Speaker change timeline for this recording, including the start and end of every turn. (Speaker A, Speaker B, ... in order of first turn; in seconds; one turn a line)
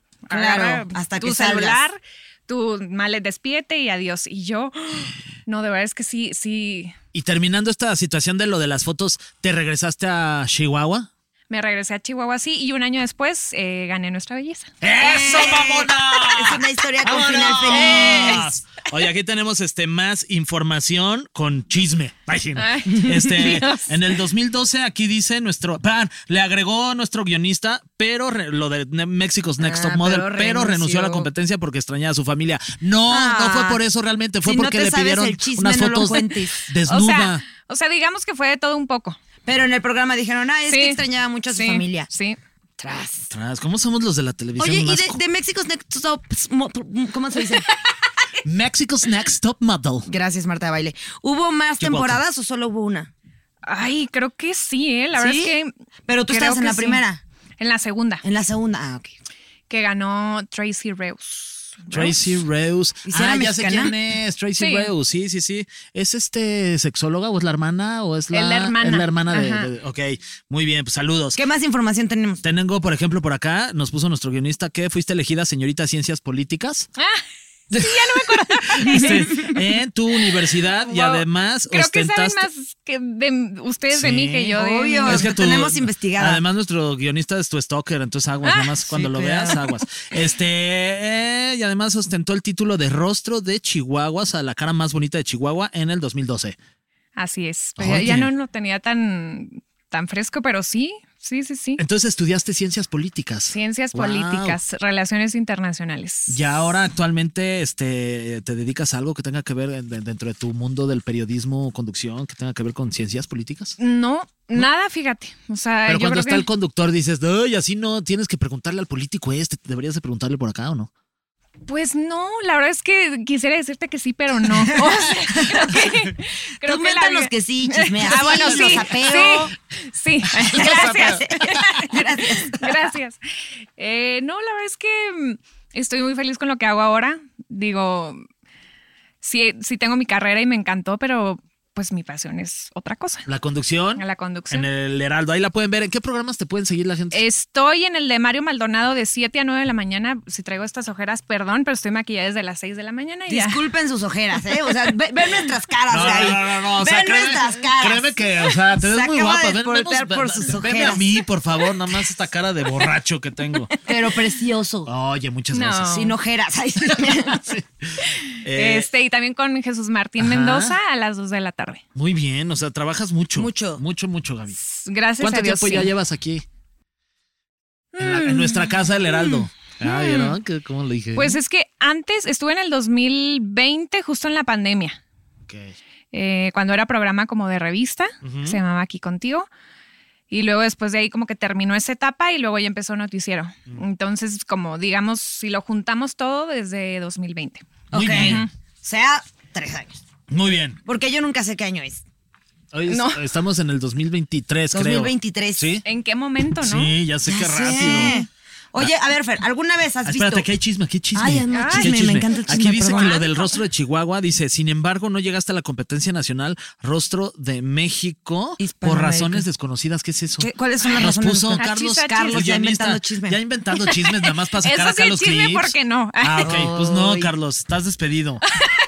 Speaker A: 0.3-7.0
Speaker B: 0.3-1.8
Speaker C: 7.1-11.1
Speaker A: 11.5-14.7
Speaker C: 14.8-37.4
Speaker B: 15.0-18.4
Speaker A: 17.7-18.5
Speaker A: 22.6-23.9
Speaker B: 29.6-31.3
Speaker B: 33.1-33.8
Speaker B: 34.4-36.7
Speaker A: 36.9-39.2
Speaker B: 39.5-42.1
Speaker A: 40.7-42.4
Speaker B: 42.8-43.3
Speaker C: 43.3-45.2
Speaker B: 44.6-47.8
Speaker C: 48.5-50.1
Speaker B: 50.1-53.1
Speaker C: 51.8-52.2
Speaker A: 53.6-55.7
Speaker B: 55.1-55.5
Speaker B: 56.1-57.2
Speaker A: 56.3-57.0
Speaker A: 57.6-58.2
Speaker B: 58.2-59.2
Speaker A: 59.7-62.2
Speaker C: 61.9-71.4
Speaker B: 63.0-63.9
Speaker A: 64.6-64.9
Speaker A: 68.3-69.7
Speaker B: 71.4-72.4
Speaker C: 72.4-76.9
Speaker A: 77.0-77.2
Speaker C: 77.7-82.5
Speaker A: 77.8-79.6
Speaker A: 80.8-85.3
Speaker C: 83.9-84.5
Speaker B: 84.5-86.4
Speaker C: 85.0-96.6
Speaker A: 88.5-88.7
Speaker B: 88.9-89.7
Speaker A: 97.2-101.8
Speaker C: 97.8-98.3
Speaker C: 101.8-104.6
Speaker A: 103.5-106.4
Speaker C: 106.3-113.8
Speaker A: 113.8-116.5
Speaker C: 115.9-120.9
Speaker A: 121.7-133.2
Speaker B: 126.6-129.5
Speaker C: 128.2-128.8
Speaker C: 130.4-131.2
Speaker B: 130.4-132.7
Speaker A: 133.8-138.2
Speaker A: 139.2-143.3
Speaker C: 143.3-147.2
Speaker A: 144.0-144.7
Speaker A: 147.1-153.6
Speaker B: 153.3-158.2
Speaker C: 155.9-163.7
Speaker B: 158.8-161.2
Speaker B: 163.8-164.9
Speaker C: 164.9-166.0
Speaker A: 165.5-166.2
Speaker B: 165.9-167.4
Speaker C: 166.9-168.9
Speaker A: 168.0-171.8
Speaker C: 170.2-170.8
Speaker C: 171.9-174.6
Speaker B: 173.4-173.8
Speaker A: 174.6-175.9
Speaker C: 175.2-176.4
Speaker A: 177.9-180.4
Speaker C: 178.0-181.4
Speaker A: 181.2-185.0
Speaker C: 185.5-185.8
Speaker A: 186.1-189.5
Speaker C: 188.2-188.6
Speaker A: 190.3-198.5
Speaker B: 197.9-200.0
Speaker C: 197.9-198.4
Speaker C: 200.3-200.8
Speaker B: 200.9-202.0
Speaker C: 202.7-205.8
Speaker A: 202.9-203.2
Speaker B: 204.7-205.7
Speaker A: 205.8-206.9
Speaker C: 206.6-208.2
Speaker B: 207.2-210.5
Speaker A: 207.8-208.3
Speaker C: 210.1-228.4
Speaker B: 211.1-213.2
Speaker A: 211.5-211.9
Speaker A: 212.8-213.6
Speaker B: 218.6-219.5
Speaker B: 220.4-223.4
Speaker A: 221.6-222.4
Speaker A: 224.6-226.5
Speaker B: 226.4-227.3